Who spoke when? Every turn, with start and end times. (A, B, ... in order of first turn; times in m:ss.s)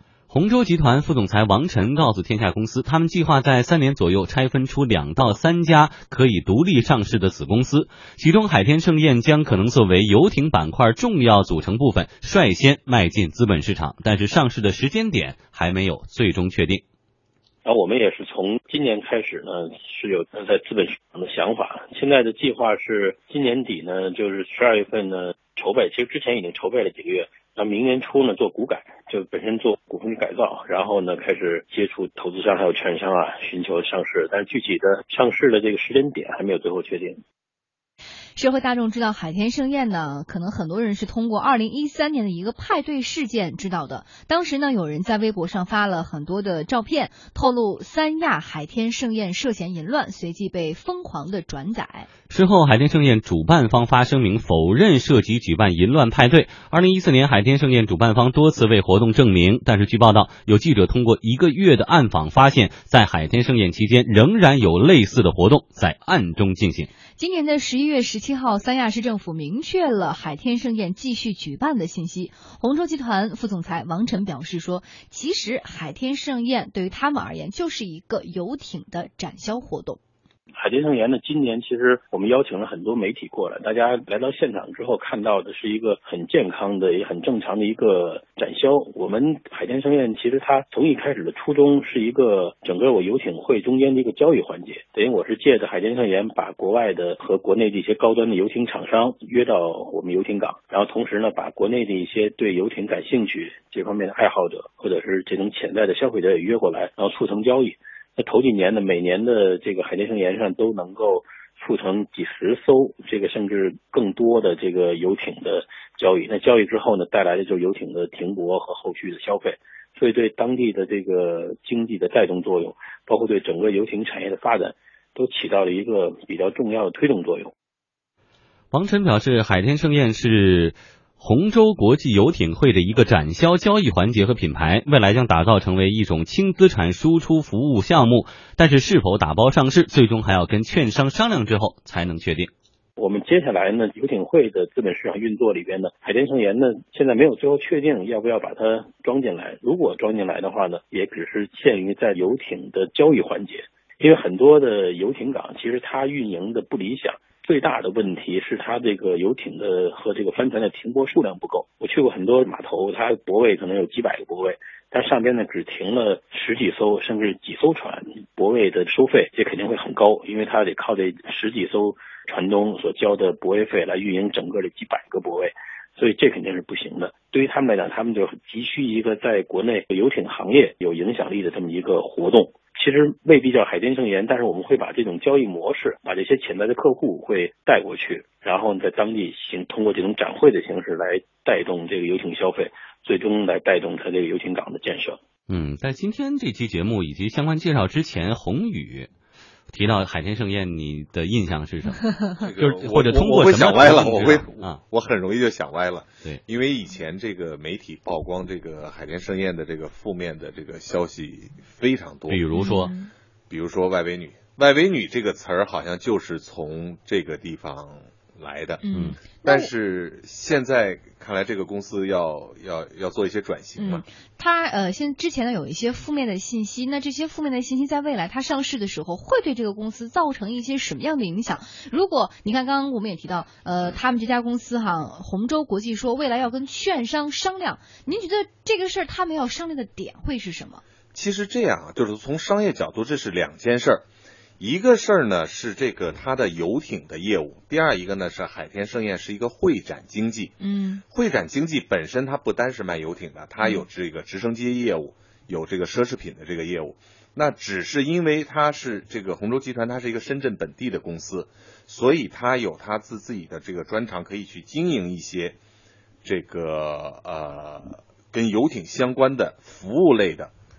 0:00.3-0:16.8 A
0:17.6-0:37.2 B
0:38.4-0:52.1 C
0:52.3-1:06.9 A
1:07.1-1:20.0 C
1:20.6-2:07.5 B
2:08.7-2:22.5 A
2:23.0-3:15.2 B
3:15.5-3:19.1 A
3:19.7-3:24.8 A
3:22.4-3:32.5 D
3:32.3-3:32.9 A
3:32.5-3:33.1 C
3:33.5-3:38.8 D
3:38.8-3:39.7 C
3:39.4-3:44.0 D
3:43.8-4:00.8 C
4:01.1-4:04.0 D
4:04.6-4:10.5 D
4:10.6-4:11.0 C
4:11.1-4:25.6 D
4:26.2-4:30.5 D